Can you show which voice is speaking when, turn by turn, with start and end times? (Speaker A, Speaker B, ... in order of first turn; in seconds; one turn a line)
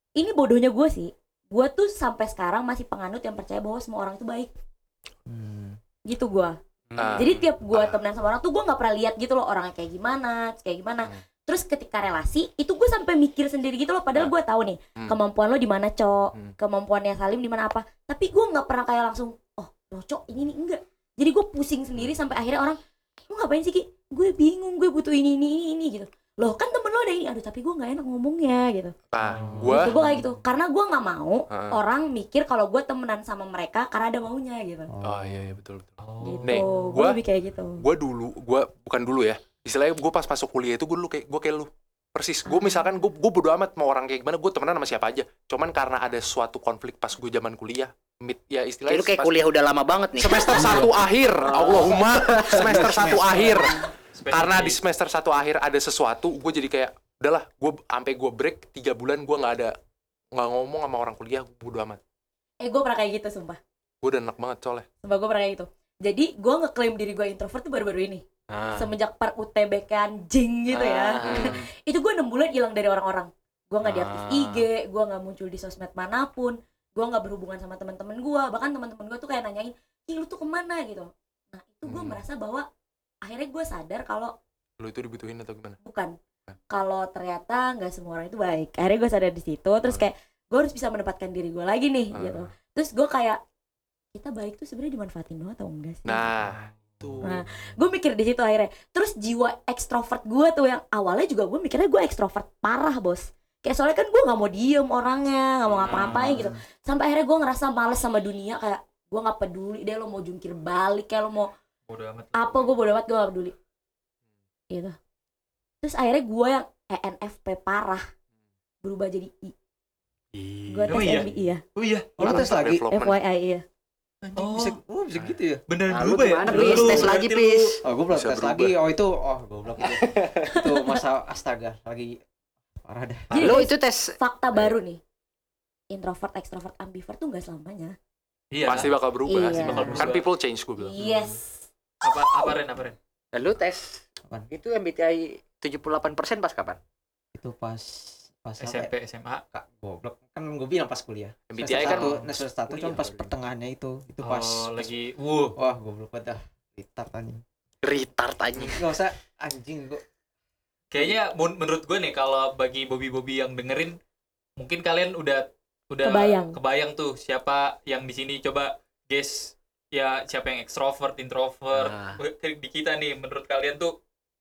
Speaker A: 0.2-4.5
Speaker B: 5.3-5.8
Speaker A: 6.0-6.6
Speaker C: 6.9-7.4
Speaker D: 6.9-8.0
Speaker A: 7.1-28.9
Speaker D: 29.1-29.9
Speaker E: 29.2-30.1
Speaker A: 29.6-34.9
Speaker D: 31.5-31.8
Speaker B: 34.9-35.5
Speaker D: 35.0-37.2
Speaker E: 36.0-36.7
Speaker A: 36.2-37.8
Speaker D: 37.8-49.4
Speaker A: 42.5-42.8
Speaker C: 48.9-53.5
Speaker D: 50.2-59.7
Speaker E: 53.3-54.8
Speaker D: 60.3-62.0
Speaker A: 62.6-63.6
Speaker D: 64.0-64.8
Speaker A: 65.0-68.2
Speaker C: 68.5-68.9
Speaker A: 68.7-82.7
Speaker C: 70.7-71.6
Speaker D: 71.2-71.6
Speaker C: 73.8-74.7
Speaker D: 81.8-82.2
Speaker A: 83.2-84.3
Speaker D: 84.8-85.8
Speaker A: 85.8-86.1
Speaker A: 86.7-93.4
Speaker D: 92.1-92.5
Speaker A: 94.1-96.4
Speaker D: 96.0-97.4
Speaker A: 97.2-111.5
Speaker E: 105.8-106.5
Speaker D: 105.9-106.2
Speaker C: 105.9-106.3
Speaker E: 111.9-112.7
Speaker A: 112.3-113.5
Speaker A: 114.7-115.0
Speaker A: 115.8-118.0
Speaker A: 118.8-119.5
Speaker C: 120.3-121.3
Speaker A: 120.7-121.6
Speaker E: 120.9-122.1
Speaker B: 122.1-122.9
Speaker A: 122.2-123.6
Speaker D: 122.2-123.2
Speaker B: 124.2-125.6
Speaker E: 124.3-124.8
Speaker E: 125.7-127.7
Speaker C: 125.9-127.8
Speaker B: 126.5-127.2
Speaker B: 127.8-132.2
Speaker D: 128.1-128.7
Speaker C: 129.8-130.5
Speaker A: 130.4-131.0
Speaker B: 132.8-133.3
Speaker A: 133.3-135.0
Speaker E: 133.3-133.6
Speaker C: 133.3-134.7
Speaker A: 135.9-137.9
Speaker E: 138.5-138.9
Speaker D: 138.6-140.9
Speaker A: 139.2-140.1
Speaker E: 139.5-140.2
Speaker B: 139.6-140.0
Speaker A: 140.8-142.6
Speaker C: 141.0-141.3
Speaker E: 142.0-143.0
Speaker C: 143.3-146.8
Speaker B: 147.3-148.9
Speaker E: 148.6-149.4
Speaker B: 149.5-154.9
Speaker D: 151.5-152.1
Speaker C: 151.8-152.1
Speaker C: 152.7-153.3
Speaker E: 154.2-155.6
Speaker B: 155.6-157.4
Speaker C: 157.8-158.8
Speaker B: 158.7-160.0
Speaker E: 160.9-164.0
Speaker E: 164.6-173.9
Speaker A: 166.0-166.6
Speaker C: 171.7-172.2